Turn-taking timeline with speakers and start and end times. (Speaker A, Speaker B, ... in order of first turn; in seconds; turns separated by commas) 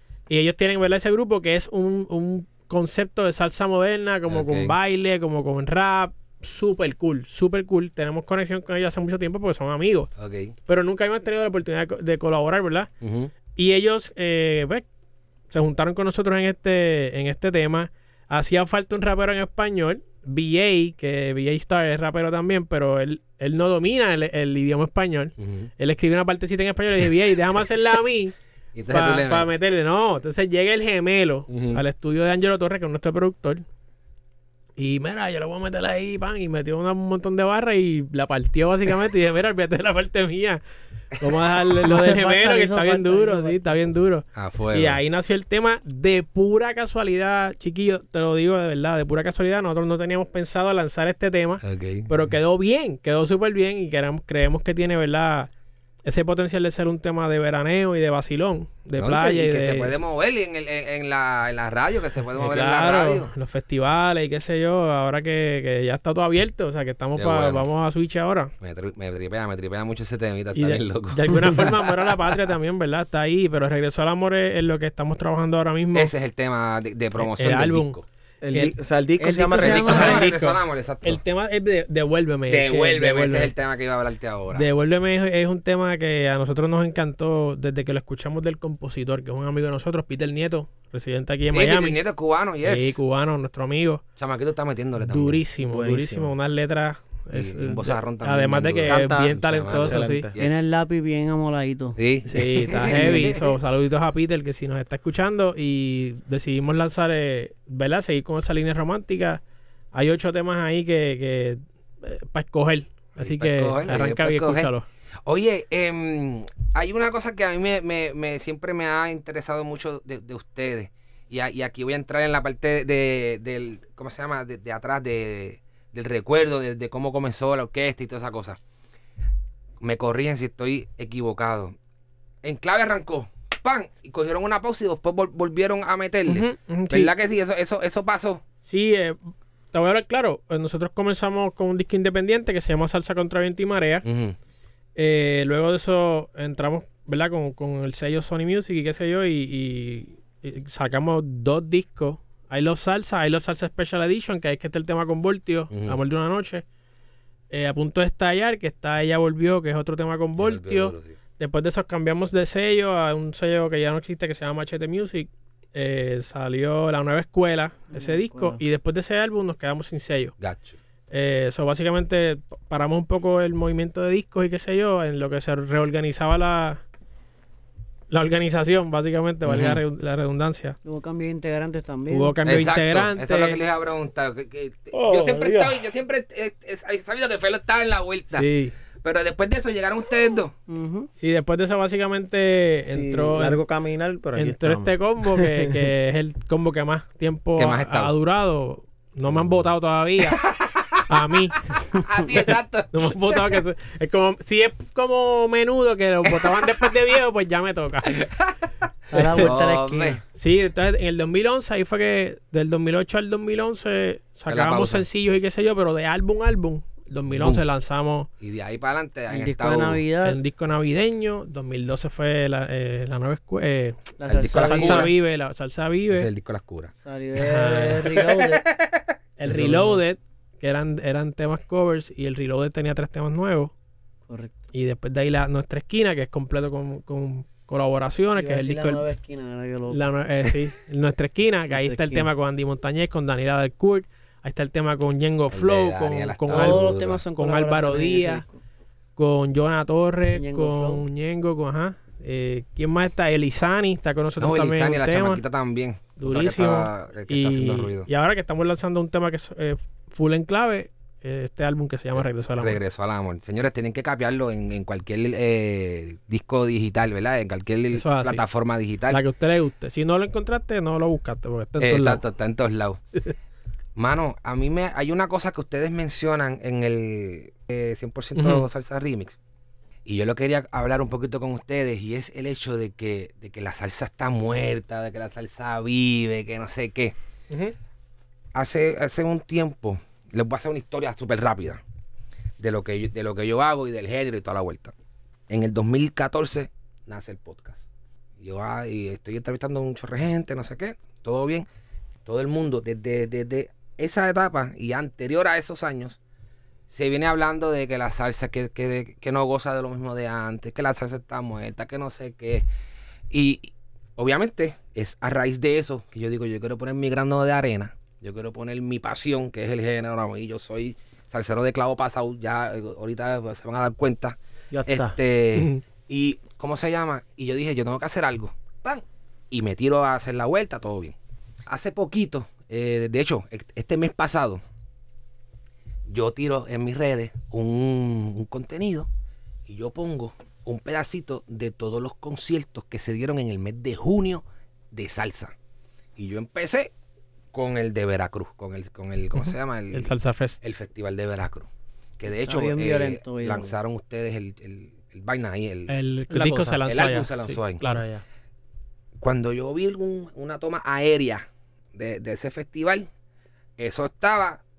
Speaker A: 0.3-10.1, Speaker B: 4.3-4.8, Speaker B: 10.2-10.5, Speaker A: 10.7-12.9, Speaker B: 13.0-13.3, Speaker A: 13.5-14.9, Speaker A: 15.5-28.3, Speaker B: 25.4-25.7, Speaker B: 28.8-29.5, Speaker A: 28.9-33.6, Speaker B: 31.5-31.8, Speaker A: 34.8-40.6, Speaker A: 41.2-55.5, Speaker C: 41.8-43.8, Speaker B: 44.3-45.0, Speaker B: 51.6-52.1, Speaker A: 56.0-60.0, Speaker B: 59.0-63.3, Speaker A: 62.4-68.5, Speaker B: 67.2-67.6, Speaker B: 68.6-72.4, Speaker A: 70.5-76.1, Speaker B: 75.9-78.0, Speaker A: 77.2-78.0, Speaker D: 78.4-80.2, Speaker C: 79.2-80.2, Speaker B: 79.6-81.2, Speaker A: 79.6-83.5, Speaker B: 82.5-84.7, Speaker A: 84.5-92.0, Speaker B: 91.5-93.0, Speaker A: 92.6-94.0, Speaker B: 94.2-95.4, Speaker A: 95.1-100.3, Speaker D: 95.6-96.3, Speaker B: 97.3-100.7, Speaker D: 98.8-100.4, Speaker C: 100.4-102.0, Speaker B: 102.0-103.5, Speaker A: 102.3-109.4, Speaker A: 109.9-114.9, Speaker B: 113.2-114.7, Speaker B: 115.3-128.6, Speaker B: 129.8-131.8, Speaker B: 132.4-138.4, Speaker A: 136.3-137.1, Speaker A: 138.7-139.2, Speaker A: 139.7-144.1, Speaker B: 144.0-144.4, Speaker A: 145.0-156.6, Speaker B: 155.7-156.0, Speaker A: 157.5-170.3, Speaker B: 160.4-161.2, Speaker C: 167.9-168.6, Speaker B: 170.4-170.8, Speaker A: 171.1-176.8, Speaker A: 178.1-180.8, Speaker B: 179.5-179.8, Speaker C: 180.8-182.3, Speaker A: 182.1-183.6, Speaker B: 182.5-188.4, Speaker D: 184.9-185.8, Speaker A: 188.3-188.7, Speaker B: 189.0-190.5, Speaker C: 190.7-191.1, Speaker A: 191.2-193.6, Speaker D: 192.8-195.8, Speaker A: 194.3-200.5, Speaker B: 197.6-198.1, Speaker A: 201.1-201.7, Speaker B: 202.0-203.6, Speaker A: 202.3-208.2, Speaker C: 209.1-210.2, Speaker A: 209.1-209.5, Speaker B: 209.3-210.2, Speaker A: 210.4-218.3, Speaker B: 214.5-215.0, Speaker B: 217.3-217.6, Speaker B: 218.4-220.0, Speaker C: 219.3-220.4, Speaker A: 220.2-226.3, Speaker C: 224.2-225.1, Speaker B: 224.2-225.1, Speaker B: 226.1-226.9, Speaker C: 227.0-228.6, Speaker A: 227.4-228.2, Speaker B: 228.3-229.0, Speaker A: 229.4-233.7, Speaker D: 229.5-229.9, Speaker C: 234.3-234.6, Speaker A: 234.7-239.0, Speaker C: 238.4-240.0, Speaker A: 239.9-248.4, Speaker C: 241.7-242.3, Speaker B: 245.5-247.2, Speaker C: 246.5-248.6, Speaker A: 249.2-255.4, Speaker C: 250.3-251.1, Speaker B: 254.4-258.1, Speaker A: 256.2-262.8, Speaker B: 262.1-269.2, Speaker A: 267.9-268.4, Speaker A: 269.1-272.2, Speaker B: 271.8-273.0, Speaker B: 274.0-279.4, Speaker A: 278.4-278.6, Speaker B: 280.1-287.1, Speaker B: 288.5-291.8, Speaker B: 292.6-294.9, Speaker B: 295.5-297.9, Speaker B: 298.4-301.7, Speaker B: 302.2-306.2, Speaker B: 306.9-312.6, Speaker B: 313.3-331.1, Speaker D: 324.7-325.2, Speaker B: 331.7-334.6, Speaker B: 336.1-339.1, Speaker B: 339.7-345.5, Speaker B: 346.2-346.9, Speaker B: 347.5-351.7, Speaker A: 349.4-350.6, Speaker B: 352.2-355.9, Speaker C: 352.3-353.7, Speaker A: 355.9-358.1, Speaker D: 356.3-356.8, Speaker B: 356.9-357.8, Speaker D: 357.8-358.2, Speaker B: 359.2-363.1, Speaker B: 363.8-364.6